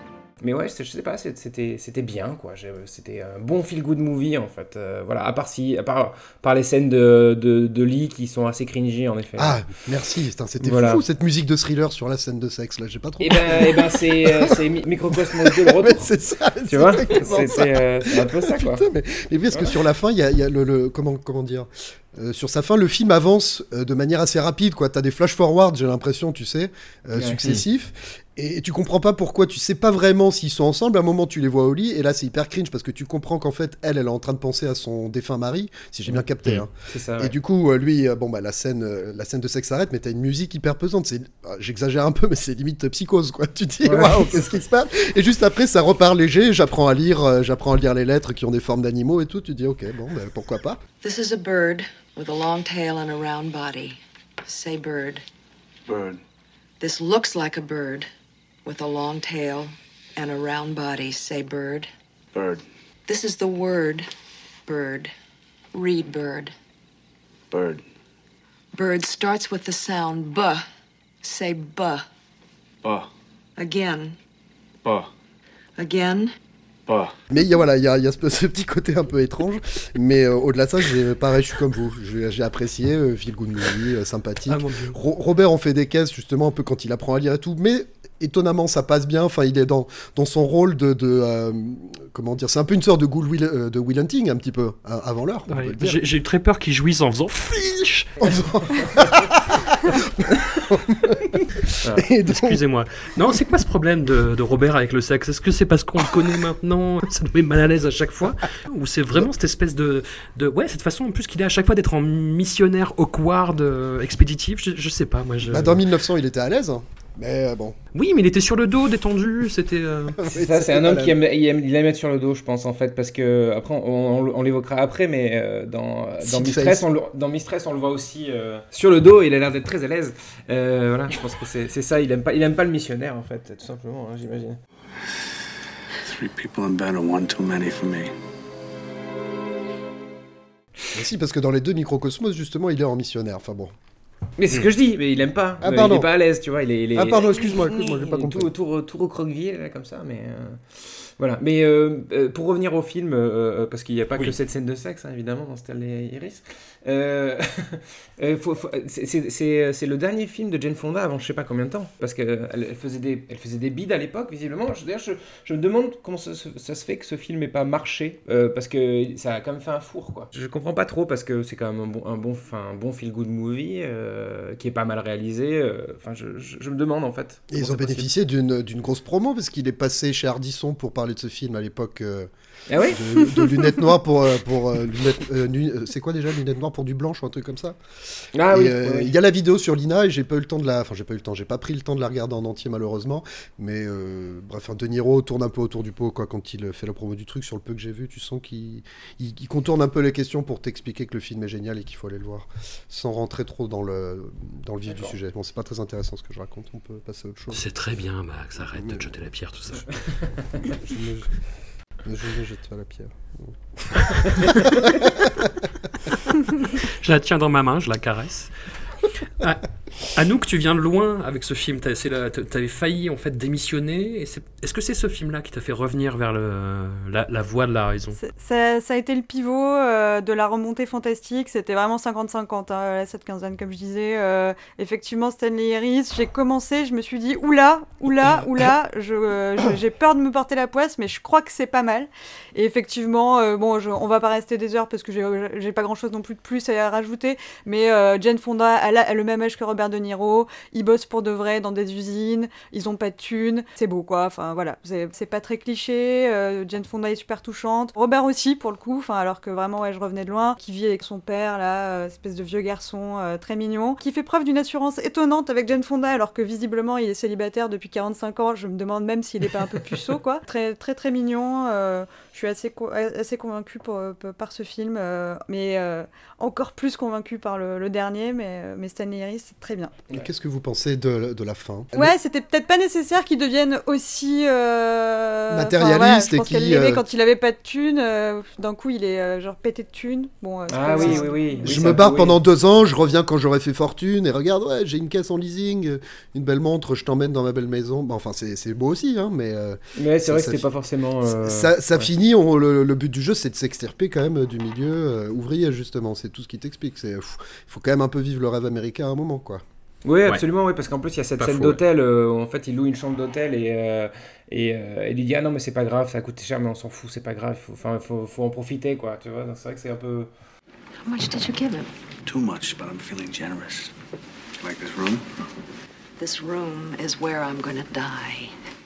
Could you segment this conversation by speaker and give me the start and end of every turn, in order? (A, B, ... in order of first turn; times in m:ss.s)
0:00.4-0:09.6 A
0:09.4-0:14.6 B
0:10.6-0:11.0 A
0:13.2-0:16.0 A
0:15.1-0:50.8 B
0:16.7-0:18.8 A
0:27.2-0:27.6 A
0:36.9-0:37.3 A
0:43.8-0:44.4 A
0:51.0-0:55.2 C
0:55.9-0:56.2 D
0:56.8-0:58.1 C
0:58.6-1:01.9 C
1:02.3-1:02.6 D
1:03.1-1:04.1 C
1:04.6-1:05.1 C
1:05.7-1:06.5 C
1:07.5-1:07.8 D
1:08.7-1:10.6 C
1:11.2-1:12.0 C
1:13.6-1:14.2 C
1:15.8-1:16.3 C
1:17.3-1:36.0 B
1:24.5-1:25.0 E
1:35.5-1:38.2 E
1:38.2-1:41.4 B
1:38.2-1:39.0 A
1:41.9-1:42.6 B
1:42.3-1:55.8 E
1:55.5-1:57.8 B
1:57.9-2:00.2 E
2:00.2-2:01.2 B
2:00.3-2:14.6 A
2:06.2-2:06.8 B
2:16.0-2:18.1 D
2:20.9-2:23.7 B
2:24.4-2:58.1 A
2:25.6-2:26.1 B
2:26.9-2:28.5 B
2:57.5-3:02.3 B
3:02.7-3:03.0 A
3:02.8-3:07.8 B
3:08.3-3:09.1 A
3:08.5-3:27.6 B
3:24.9-3:25.1 A
3:27.5-3:30.0 E
3:28.8-3:29.0 B
3:30.8-3:31.3 B
3:32.0-3:35.5 B
3:36.6-3:38.5 E
3:39.4-3:48.2 E
3:48.2-4:39.9 F
4:40.1-4:42.1 B
4:41.9-4:51.6 F
4:45.5-4:47.0 B
4:50.7-4:52.4 A
4:51.0-5:00.7 B
5:00.0-5:02.1 A
5:01.2-5:09.6 B
5:10.0-5:20.3 A
5:11.4-5:11.8 E
5:21.0-5:21.9 C
5:22.2-5:23.9 D
5:24.6-5:25.2 D
5:26.2-5:28.5 C